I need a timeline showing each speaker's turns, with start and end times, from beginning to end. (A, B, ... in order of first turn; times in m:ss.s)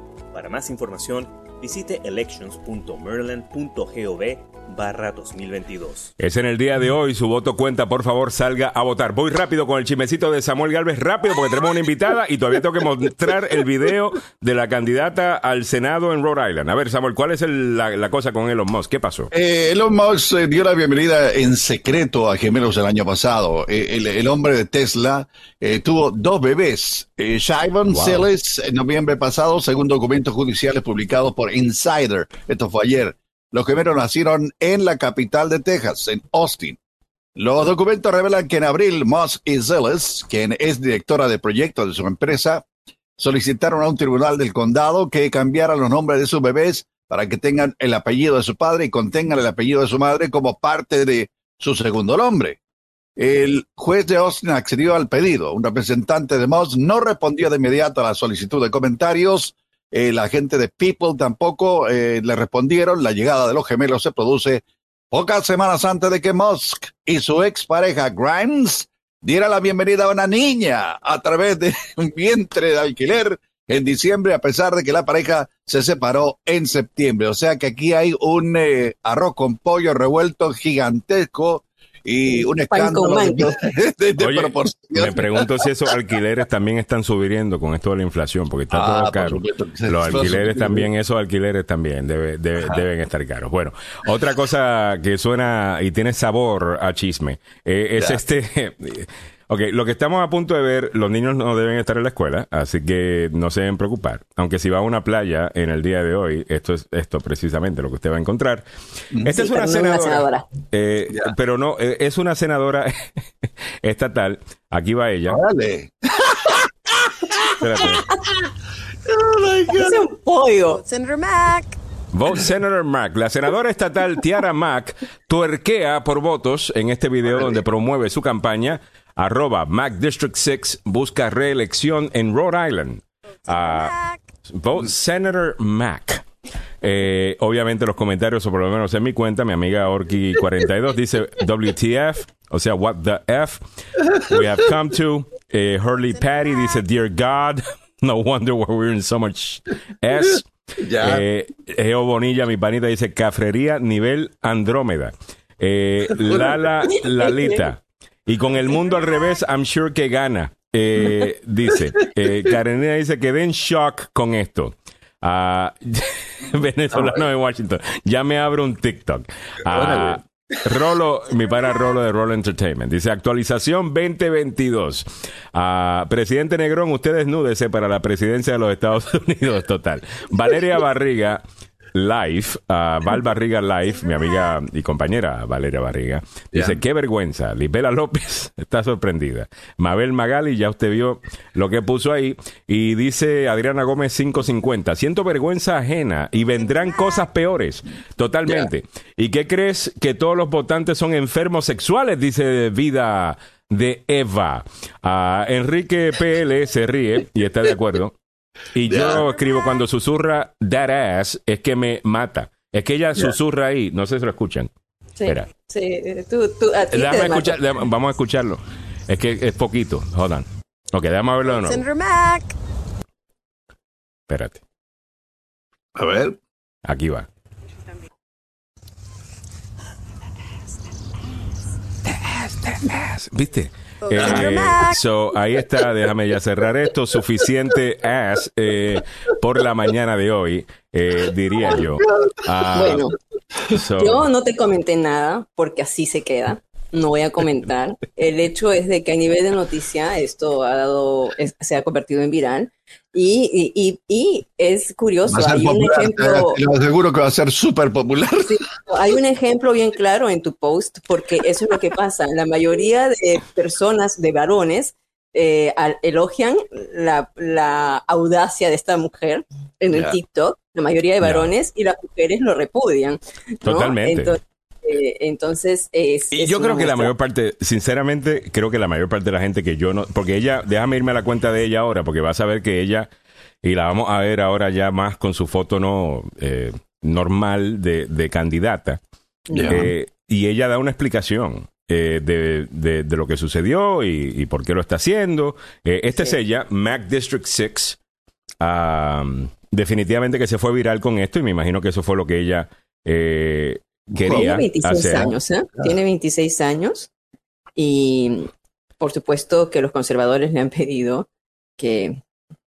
0:00.3-0:06.1 A
0:06.2-0:19.3 B
0:19.3-0:36.8 C
0:27.8-0:28.2 B
0:37.4-0:52.6 C
0:53.2-1:25.5 C
1:22.3-1:23.5 D
1:24.2-1:48.6 B
1:28.7-1:30.9 C
1:32.6-1:32.8 C
1:49.2-1:52.9 B
1:49.3-1:50.4 D
1:53.8-1:55.4 B
1:55.3-1:57.4 C
1:57.6-1:58.1 B
1:59.0-2:00.0 C
1:59.7-2:00.8 D
2:00.7-2:01.8 E
2:02.1-2:16.2 B
2:13.5-2:14.2 E
2:16.8-2:23.6 B
2:24.2-3:01.4 B
2:30.8-2:31.2 C
2:36.2-2:36.7 C
2:36.9-2:37.6 D
2:46.9-2:47.2 C
2:49.6-2:50.8 C
3:01.9-3:28.1 B
3:06.5-3:06.8 C
3:28.7-3:34.7 B
3:28.9-3:29.2 C
3:35.2-3:37.6 D
3:36.9-3:41.8 B
3:41.4-3:42.6 E
3:44.3-3:44.6 B
3:45.9-3:46.4 C
3:46.8-3:47.3 B
3:52.0-4:03.1 B
3:54.0-3:55.0 E
3:54.2-3:54.4 C
4:01.8-4:02.3 C
4:02.7-4:03.1 D
4:03.7-4:04.3 B
4:03.7-4:16.6 D
4:15.3-4:18.6 C
4:18.4-4:37.1 D
4:29.9-4:30.2 C
4:31.2-4:31.5 B
4:33.6-4:34.4 B
4:36.3-4:43.1 B
4:43.6-4:49.0 B
4:49.5-4:49.9 D
4:49.5-4:49.9 C
4:49.7-4:58.0 B
4:58.6-5:05.3 B
5:04.1-5:04.4 C
5:04.3-5:07.1 D
5:07.8-5:12.2 D